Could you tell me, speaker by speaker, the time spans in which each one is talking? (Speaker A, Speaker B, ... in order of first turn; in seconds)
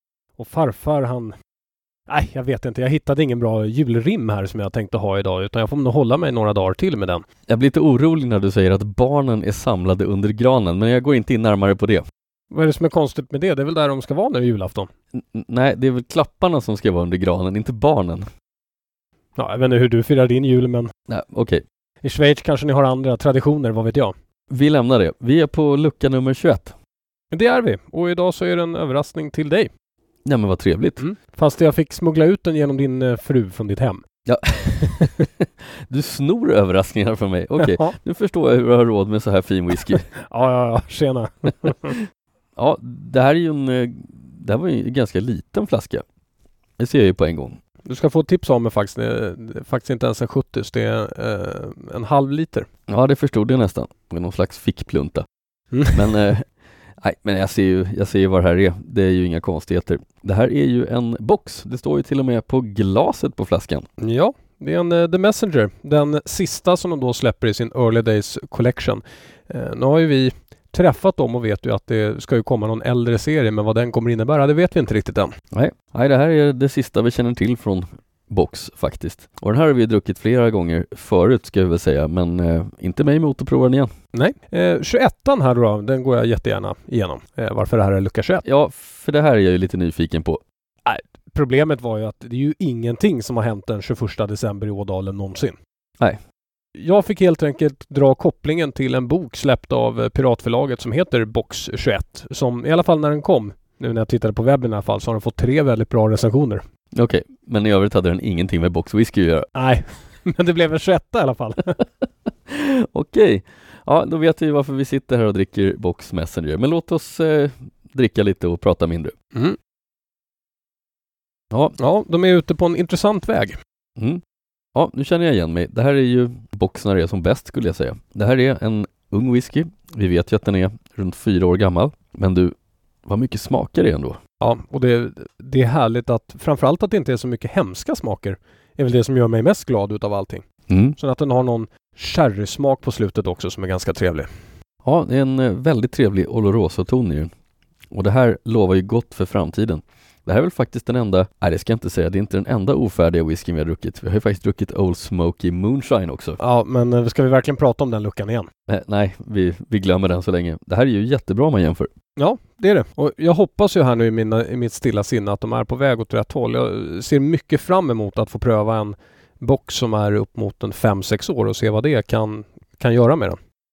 Speaker A: 0.4-1.3, 2.1-7.2, 12.5-14.9, 19.4-20.9, 22.0-24.1, 27.3-29.7, 31.0-34.0, 37.6-38.0, 40.3-42.0, 47.9-52.7, 64.0-75.3, 84.1-88.4, 90.8-95.5, 96.8-106.6, 109.5-111.8, 121.8-123.5, 134.4-140.4, 141.0-144.3, 156.4-158.5, 162.2-173.4
Speaker B: 7.5-12.0, 15.1-18.3, 21.1-21.6, 24.5-26.7, 30.2-31.0, 34.2-40.0, 42.5-46.0, 46.8-47.6, 52.9-55.2, 55.9-56.5, 57.0-63.9, 75.5-83.9, 88.4-90.4, 106.9-109.5, 112.5-119.1, 124.7-132.5, 133.1-134.2, 140.7-140.9, 144.8-147.3, 147.9-156.4, 158.7-161.9